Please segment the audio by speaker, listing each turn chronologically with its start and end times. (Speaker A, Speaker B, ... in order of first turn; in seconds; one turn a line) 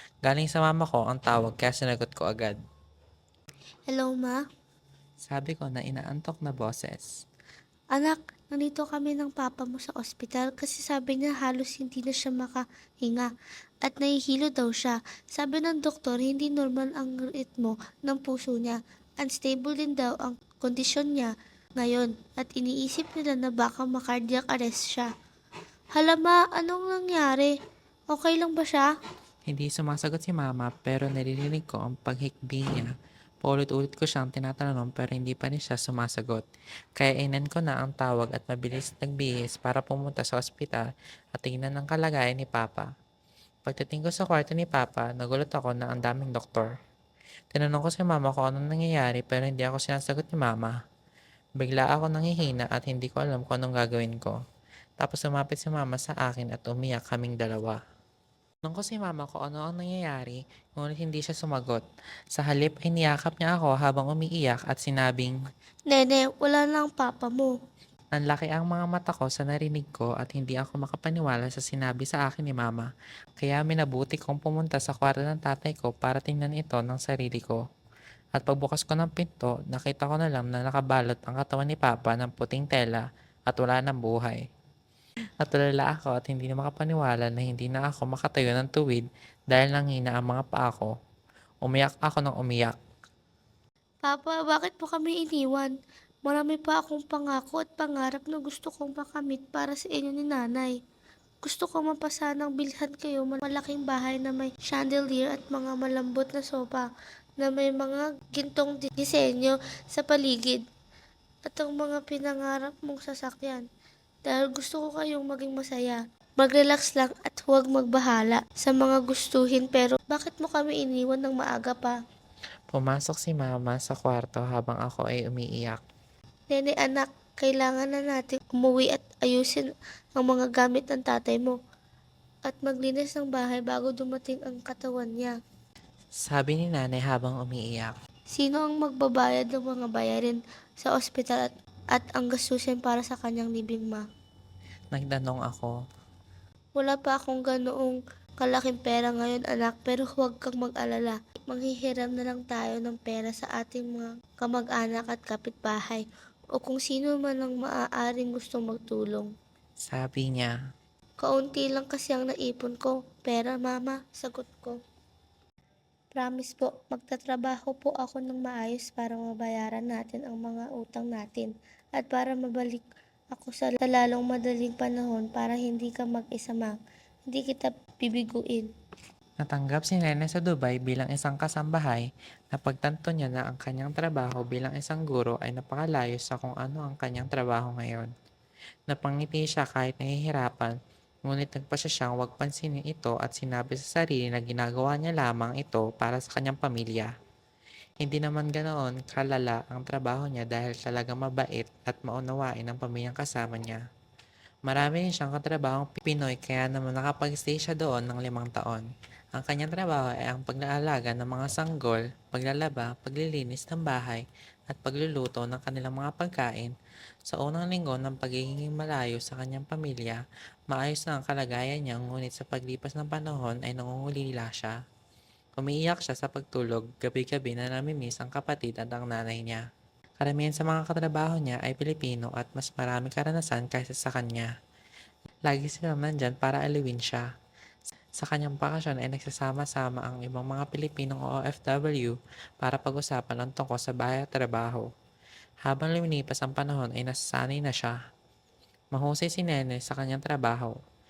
Speaker A: 0.2-2.6
Speaker B: 3.9-4.4
Speaker A: 5.3-7.1
Speaker B: 7.9-13.3
Speaker B: 13.8-25.1
Speaker B: 25.9-27.5
Speaker B: 28.1-28.9
Speaker A: 29.5-32.9
Speaker A: 33.4-36.4
Speaker A: 37.0-42.9
Speaker A: 43.7-46.7
Speaker A: 47.5-50.8
Speaker A: 51.6-54.4
Speaker A: 55.0-57.8
Speaker A: 58.6-61.8
Speaker A: 62.4-65.4
Speaker B: 65.9-67.5
Speaker A: 68.1-72.9
Speaker A: 73.4-77.6
Speaker A: 78.3-84.4
Speaker A: 85.4-90.9
Speaker A: 91.6-92.8
Speaker B: 94.0-95.7
Speaker B: 96.2-100.7
Speaker B: 101.4-106.9
Speaker B: 107.4-110.6
Speaker B: 111.5-113.7
Speaker B: 114.3-122.0
Speaker A: 122.7-125.8
Speaker B: 126.5-131.6
Speaker B: 132.5-135.3
Speaker A: 136.2-137.9
Speaker B: 138.3-144.1
Speaker A: 144.9-145.7
Speaker B: 146.8-159.3
Speaker A: 159.8-160.5
Speaker B: 161.2-164.8
Speaker B: 166.1-176.7
Speaker B: 177.3-178.7
Speaker A: 179.4-188.1
Speaker A: 188.9-190.7
Speaker A: 191.3-197.1
Speaker A: 198.0-203.8
Speaker A: 204.7-216.7
Speaker A: 217.3-224.8
Speaker A: 225.6-229.6
Speaker A: 230.2-234.5
Speaker A: 235.5-237.3
Speaker A: 238.2-244.9
Speaker A: 245.6-248.0
Speaker A: 248.9-250.7